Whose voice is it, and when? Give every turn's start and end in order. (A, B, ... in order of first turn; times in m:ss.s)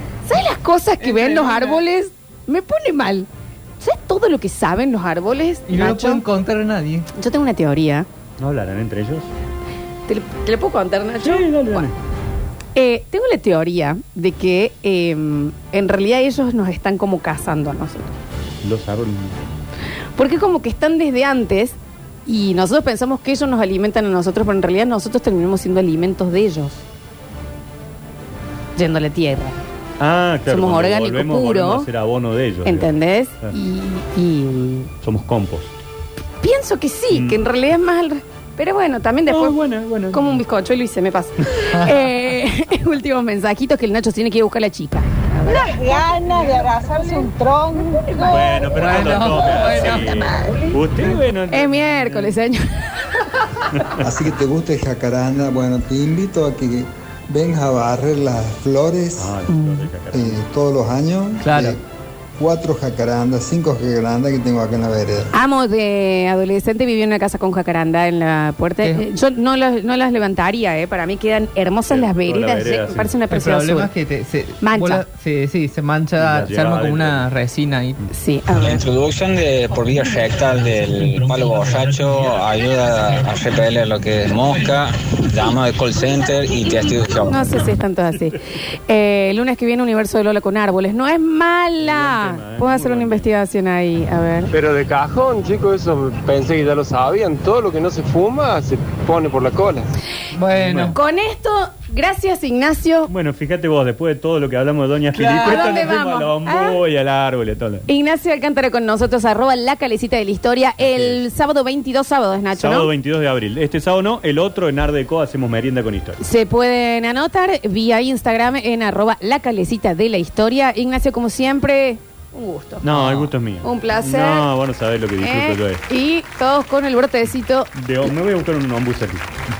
0:00.2-0:03.3 A
0:03.8-0:06.2 A
0:05.7-0:07.1 B
0:07.2-0:08.1 A
0:08.4-0:09.3 C
0:10.1-0:11.9 A
0:11.2-0:11.9 C
0:12.7-0:18.1 A
0:18.6-0:19.4 C
0:20.2-0:26.8 A
0:28.8-0:29.6 A
0:30.0-0:33.5 C
0:30.5-0:31.9 A
0:32.6-0:34.9 A
0:35.0-0:35.7 C
0:36.4-0:39.6 A
0:37.1-0:37.4 C
0:39.3-0:40.4 C
0:40.1-0:46.0 A
0:41.7-0:42.0 B
0:45.5-0:48.7 D
0:48.2-0:52.4 C
0:48.7-0:50.7 B
0:51.5-0:53.1 A
0:53.7-0:54.0 C
0:54.0-0:59.4 E
0:59.2-1:00.4 C
1:00.1-1:01.8 E
1:01.4-1:01.8 B
1:02.4-1:05.3 E
1:05.3-1:13.9 A
1:11.9-1:13.1 C
1:13.3-1:18.0 B
1:14.6-1:15.0 A
1:16.2-1:17.2 C
1:18.1-1:18.8 A
1:18.6-1:27.6 F
1:27.1-1:34.5 A
1:31.8-1:33.3 C
1:34.5-1:39.8 G
1:40.3-1:41.0 B
1:40.5-1:40.9 C
1:40.9-1:43.1 A
1:43.1-1:47.8 C
1:45.1-1:45.8 B
1:45.4-1:46.8 A
1:47.9-1:52.9 A
1:50.8-1:51.2 C
1:52.6-1:56.2 C
1:56.2-2:04.5 A
2:02.8-2:05.8 C
2:02.9-2:03.2 B
2:05.2-2:07.7 A
2:07.7-2:09.2 C